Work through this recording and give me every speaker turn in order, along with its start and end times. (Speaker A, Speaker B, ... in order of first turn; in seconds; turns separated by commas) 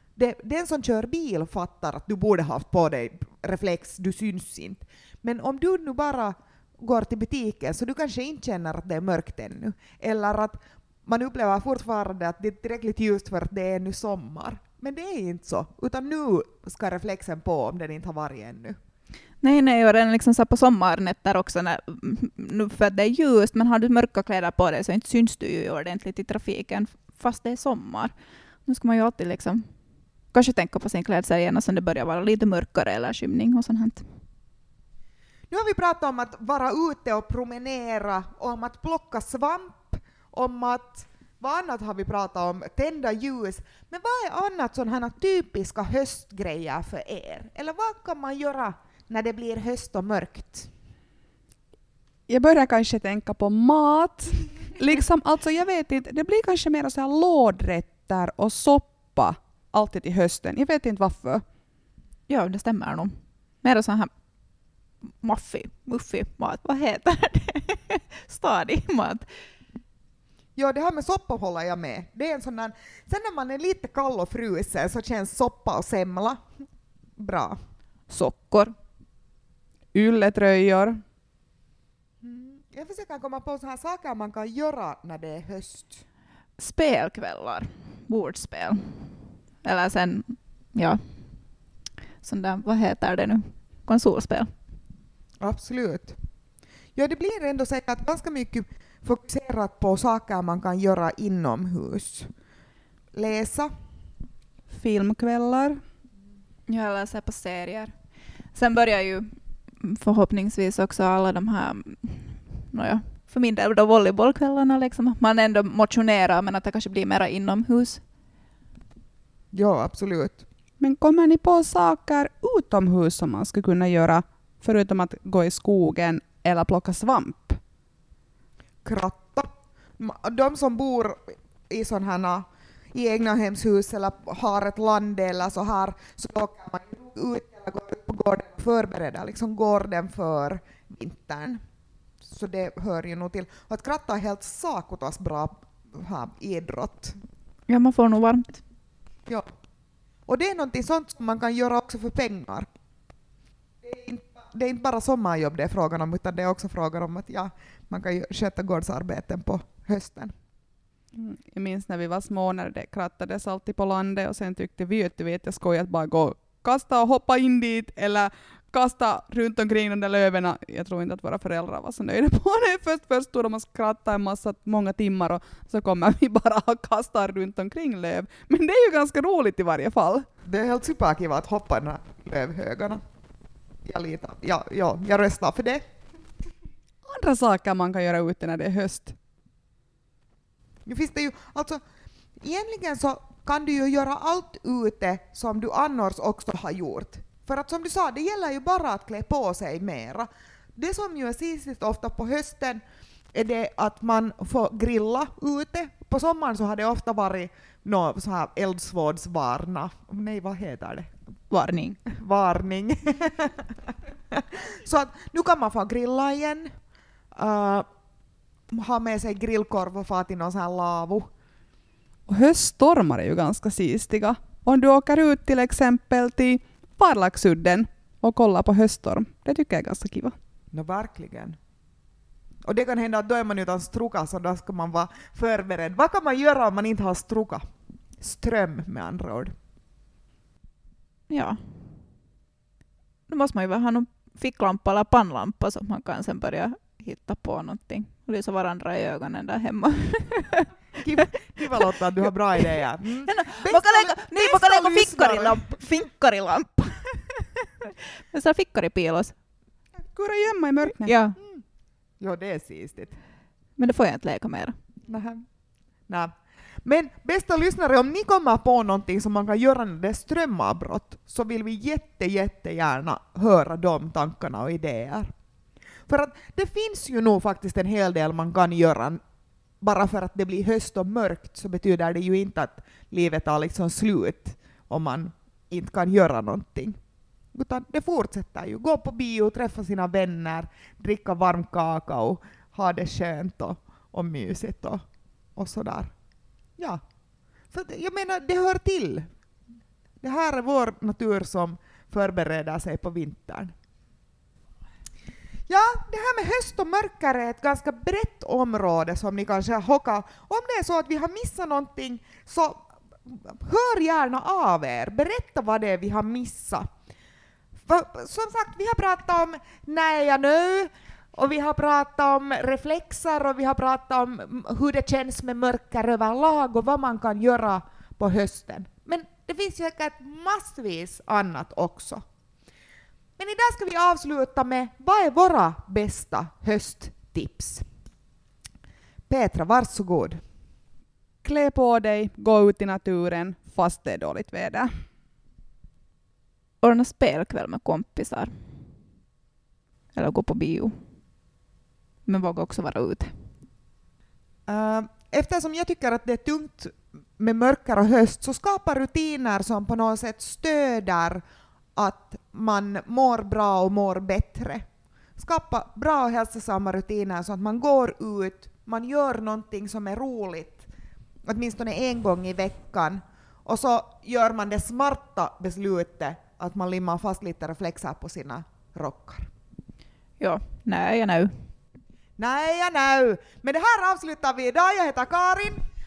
Speaker A: 0.2-18.8, Speaker B: 19.4-28.1, Speaker B: 28.6-29.7, Speaker B: 30.3-34.1, Speaker A: 35.5-50.7, Speaker C: 52.3-61.4, Speaker B: 62.3-64.1, Speaker B: 65.2-69.3, Speaker A: 70.5-76.4, Speaker A: 77.2-77.6, Speaker B: 78.1-78.7, Speaker C: 79.9-81.0, Speaker A: 82.2-86.0, Speaker B: 86.6-91.1, Speaker B: 92.2-94.5, Speaker A: 95.4-96.2, Speaker A: 97.0-102.3, Speaker A: 103.1-103.7, Speaker C: 104.7-105.8, Speaker B: 106.7-107.9, Speaker B: 108.5-118.0, Speaker A: 119.5-120.4, Speaker C: 120.8-127.6, Speaker A: 128.8-141.6, Speaker A: 142.2-147.2, Speaker B: 147.7-148.6, Speaker A: 150.3-152.7, Speaker A: 153.8-160.3, Speaker C: 161.1-180.3, Speaker A: 180.5-183.0, Speaker A: 183.8-185.8, Speaker C: 187.0-189.2, Speaker A: 190.8-191.8, Speaker A: 192.4-202.8, Speaker A: 203.3-211.1, Speaker B: 211.5-212.0, Speaker A: 212.1-216.7, Speaker A: 217.3-217.9, Speaker A: 218.7-221.3, Speaker C: 222.3-230.3, Speaker A: 230.7-231.6, Speaker A: 232.7-237.6, Speaker A: 238.2-239.5, Speaker B: 241.3-241.6, Speaker B: 243.3-250.7, Speaker A: 251.0-255.7, Speaker B: 251.2-251.6, Speaker B: 253.3-259.3, Speaker C: 260.1-261.1, Speaker B: 261.0-261.4, Speaker A: 261.4-261.6, Speaker A: 262.2-263.2, Speaker B: 263.8-264.8, Speaker A: 265.1-265.4, Speaker A: 266.8-275.3, Speaker A: 276.1-279.2, Speaker A: 279.8-287.0, Speaker A: 287.5-295.0, Speaker A: 295.6-296.1, Speaker A: 297.7-299.3, Speaker A: 300.2-303.7, Speaker A: 305.7-316.9, Speaker A: 317.9-332.2, Speaker A: 333.4-337.8, Speaker A: 339.3-340.4, Speaker C: 341.4-344.9, Speaker B: 346.8-348.5, Speaker B: 350.1-351.0, Speaker B: 352.2-353.3, Speaker A: 354.7-361.4, Speaker A: 361.9-364.8, Speaker A: 365.4-370.9, Speaker A: 371.4-379.5, Speaker B: 380.4-381.6, Speaker A: 382.4-385.8